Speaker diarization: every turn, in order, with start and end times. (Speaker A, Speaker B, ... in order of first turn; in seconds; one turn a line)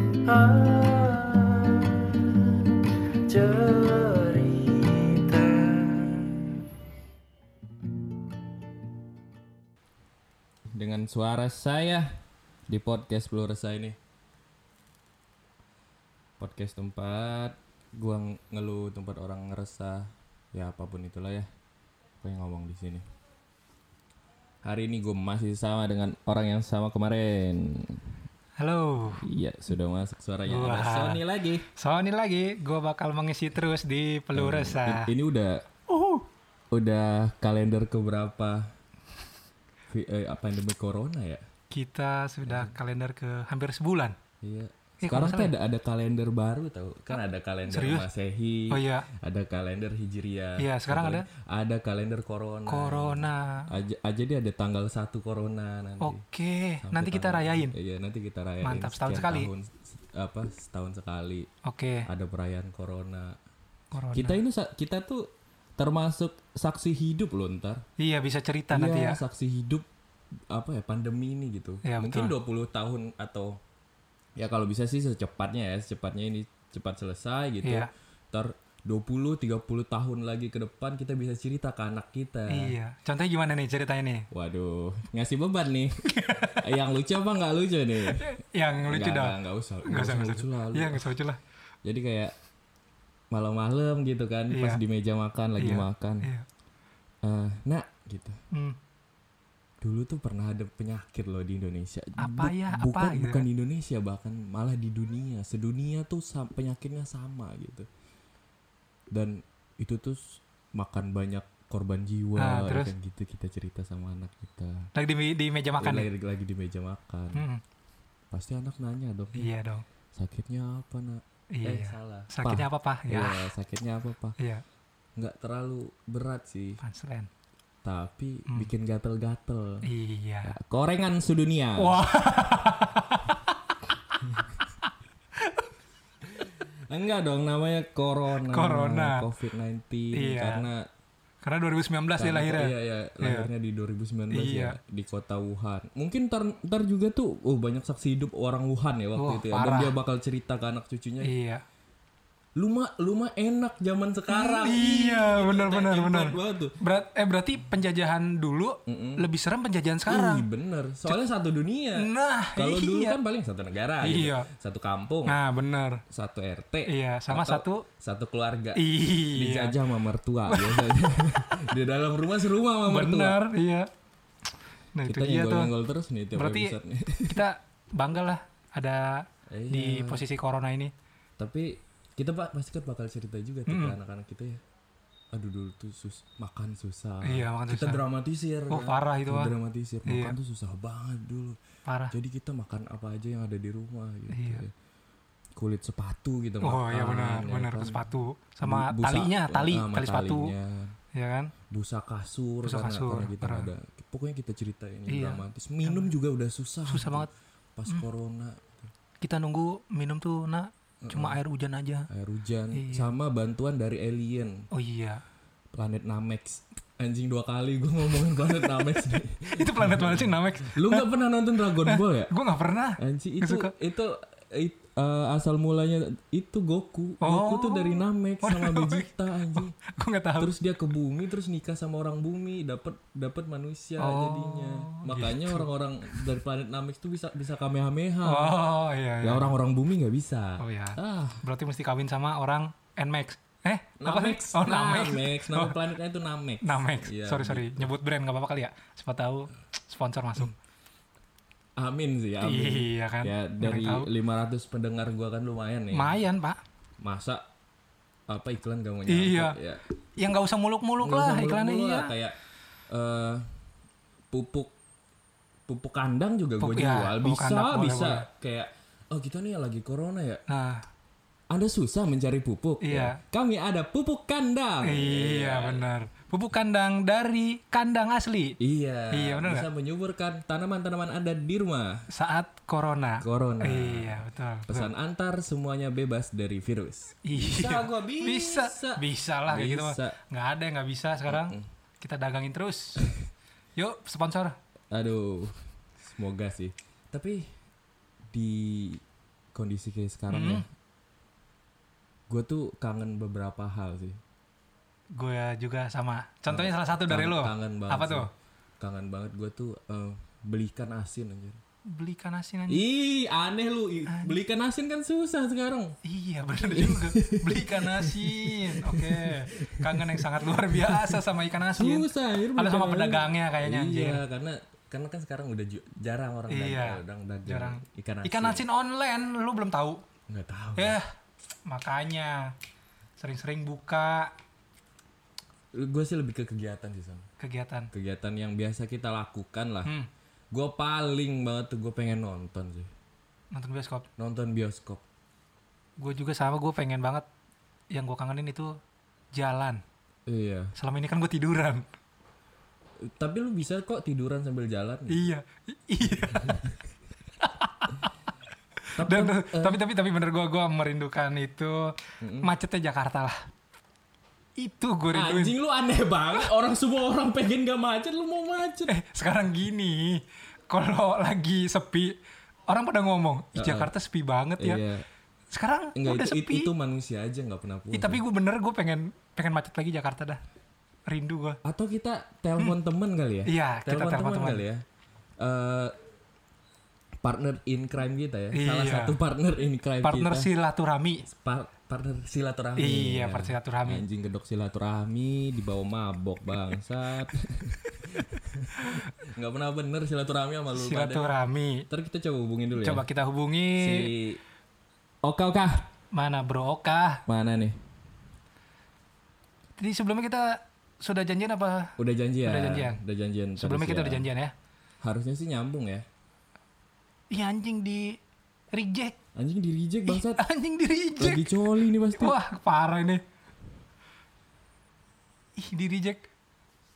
Speaker A: 0.2-2.7
Speaker A: 3.3-6.5
Speaker B: 10.7-12.1
Speaker B: 12.7-14.0
Speaker B: 16.4-21.5
Speaker B: 22.2-23.1
Speaker B: 24.6-28.1
Speaker C: 28.6-29.2
Speaker B: 29.2-31.6
Speaker C: 30.5-31.2
Speaker C: 31.8-35.1
Speaker B: 34.4-35.7
Speaker C: 35.9-36.3
Speaker B: 36.7-38.7
Speaker B: 39.9-41.5
Speaker C: 41.7-44.1
Speaker B: 42.5-42.7
Speaker B: 44.4-56.2
Speaker C: 45.0-45.5
Speaker C: 47.7-48.1
Speaker C: 48.7-49.1
Speaker C: 50.6-51.3
Speaker C: 52.7-53.7
Speaker C: 56.0-57.8
Speaker B: 56.8-61.5
Speaker C: 58.6-59.5
Speaker C: 61.6-62.1
Speaker B: 62.1-63.4
Speaker C: 63.9-64.4
Speaker B: 64.1-67.8
Speaker C: 68.0-69.2
Speaker B: 68.7-69.9
Speaker B: 70.5-73.6
Speaker C: 71.8-72.3
Speaker B: 74.4-82.8
Speaker C: 77.6-77.9
Speaker C: 82.5-84.3
Speaker B: 84.3-86.0
Speaker C: 86.1-86.6
Speaker B: 86.5-88.3
Speaker C: 88.1-91.4
Speaker B: 88.8-91.1
Speaker B: 91.8-92.3
Speaker B: 93.3-96.3
Speaker C: 94.5-94.8
Speaker C: 95.6-96.5
Speaker B: 97.2-98.4
Speaker B: 99.8-107.9
Speaker C: 102.2-103.5
Speaker B: 109.1-114.9
Speaker C: 112.4-112.9
Speaker C: 115.0-116.1
Speaker B: 115.8-117.4
Speaker C: 117.3-117.6
Speaker B: 118.3-119.5
Speaker C: 119.3-119.8
Speaker B: 120.2-124.4
Speaker C: 121.5-123.5
Speaker B: 125.2-126.8
Speaker C: 126.8-127.3
Speaker B: 127.8-129.9
Speaker C: 129.8-130.5
Speaker B: 130.4-132.0
Speaker C: 131.8-133.6
Speaker C: 135.4-135.7
Speaker B: 136.3-140.9
Speaker C: 138.5-139.2
Speaker C: 140.1-140.7
Speaker C: 141.4-143.5
Speaker B: 142.2-151.3
Speaker C: 144.3-144.8
Speaker C: 149.2-149.9
Speaker C: 151.2-151.6
Speaker B: 152.6-156.8
Speaker C: 154.3-160.5
Speaker B: 158.9-159.3
Speaker B: 160.1-165.4
Speaker C: 162.0-163.2
Speaker C: 164.0-164.5
Speaker C: 165.3-166.0
Speaker B: 166.1-168.8
Speaker C: 166.9-167.8
Speaker C: 168.8-169.8
Speaker B: 169.3-173.4
Speaker C: 170.5-171.4
Speaker C: 172.9-173.9
Speaker C: 175.0-175.7
Speaker B: 175.0-177.4
Speaker C: 176.4-180.9
Speaker B: 179.5-180.2
Speaker B: 181.4-184.6
Speaker C: 183.7-184.0
Speaker B: 185.3-191.6
Speaker C: 187.2-188.0
Speaker C: 188.7-189.5
Speaker C: 190.1-190.4
Speaker C: 191.9-192.1
Speaker B: 192.1-194.7
Speaker C: 194.3-194.6
Speaker B: 195.6-198.0
Speaker C: 196.6-200.5
Speaker B: 198.6-201.0
Speaker C: 201.1-201.5
Speaker B: 201.7-208.9
Speaker C: 202.7-203.7
Speaker C: 205.1-206.1
Speaker C: 206.9-207.3
Speaker C: 209.2-212.1
Speaker B: 211.0-211.4
Speaker B: 212.1-214.7
Speaker C: 212.7-213.1
Speaker C: 214.7-215.2
Speaker B: 215.7-222.3
Speaker C: 219.5-221.1
Speaker C: 221.8-223.7
Speaker B: 223.0-229.7
Speaker C: 227.2-230.5
Speaker B: 230.4-238.6
Speaker C: 234.0-236.3
Speaker C: 238.2-239.5
Speaker B: 239.2-241.4
Speaker C: 240.6-245.7
Speaker B: 244.0-247.9
Speaker C: 246.6-250.6
Speaker B: 251.8-256.2
Speaker C: 252.4-254.1
Speaker C: 255.9-256.6
Speaker B: 257.0-257.4
Speaker B: 258.3-259.8
Speaker C: 259.1-259.6
Speaker C: 260.2-262.1
Speaker B: 261.0-262.4
Speaker B: 262.9-263.5
Speaker B: 264.3-264.7
Speaker B: 265.7-270.4
Speaker C: 266.6-268.2
Speaker C: 270.5-270.8
Speaker B: 271.5-275.8
Speaker C: 272.8-273.2
Speaker C: 274.8-278.6
Speaker B: 278.6-282.1
Speaker C: 279.1-279.7
Speaker C: 282.1-284.9
Speaker B: 283.2-290.2
Speaker C: 287.2-293.0
Speaker B: 291.3-291.7
Speaker C: 293.8-294.6
Speaker B: 294.9-297.5
Speaker B: 298.3-299.0
Speaker B: 299.5-300.7
Speaker C: 300.3-300.6
Speaker B: 302.3-304.2
Speaker C: 305.2-308.3
Speaker B: 306.5-308.3
Speaker B: 308.8-311.6
Speaker C: 311.9-312.8
Speaker B: 312.7-315.9
Speaker C: 314.1-314.4
Speaker C: 316.1-324.2
Speaker B: 316.7-328.6
Speaker C: 326.5-330.0
Speaker B: 330.3-331.0
Speaker C: 330.8-331.1
Speaker C: 331.7-332.5
Speaker C: 333.2-334.3
Speaker B: 335.7-337.3
Speaker C: 337.4-337.9
Speaker B: 337.9-339.9
Speaker B: 340.5-342.9
Speaker C: 343.5-344.1
Speaker B: 344.2-345.0
Speaker C: 346.0-347.3
Speaker C: 347.9-348.8
Speaker C: 349.3-349.8
Speaker B: 350.3-350.7
Speaker C: 350.8-351.9
Speaker B: 353.0-355.3
Speaker C: 355.1-356.6
Speaker C: 357.4-358.1
Speaker B: 359.0-359.8
Speaker C: 359.0-363.4
Speaker B: 362.2-362.5
Speaker C: 364.6-365.6
Speaker B: 365.1-368.9
Speaker C: 368.9-372.1
Speaker C: 372.7-374.8
Speaker B: 373.6-373.9
Speaker B: 374.6-375.1
Speaker C: 375.5-376.7
Speaker B: 375.9-378.2
Speaker C: 377.9-380.4
Speaker C: 381.1-381.6
Speaker B: 381.6-384.9
Speaker C: 383.5-384.6
Speaker B: 385.4-385.9
Speaker B: 387.2-390.5
Speaker C: 388.5-389.2
Speaker C: 390.0-391.2
Speaker B: 391.3-401.3
Speaker C: 392.8-394.0
Speaker C: 400.7-401.9
Speaker B: 401.9-403.0
Speaker C: 402.8-404.1
Speaker B: 403.8-404.4
Speaker B: 405.2-405.9
Speaker C: 406.1-407.2
Speaker B: 407.3-407.8
Speaker C: 409.8-411.9
Speaker B: 412.0-414.3
Speaker C: 412.4-413.0
Speaker C: 413.6-414.5
Speaker B: 415.0-416.1
Speaker C: 417.3-418.2
Speaker C: 418.7-419.1
Speaker B: 419.4-420.4
Speaker C: 420.1-421.6
Speaker B: 421.2-422.4
Speaker C: 422.2-423.2
Speaker C: 425.6-426.2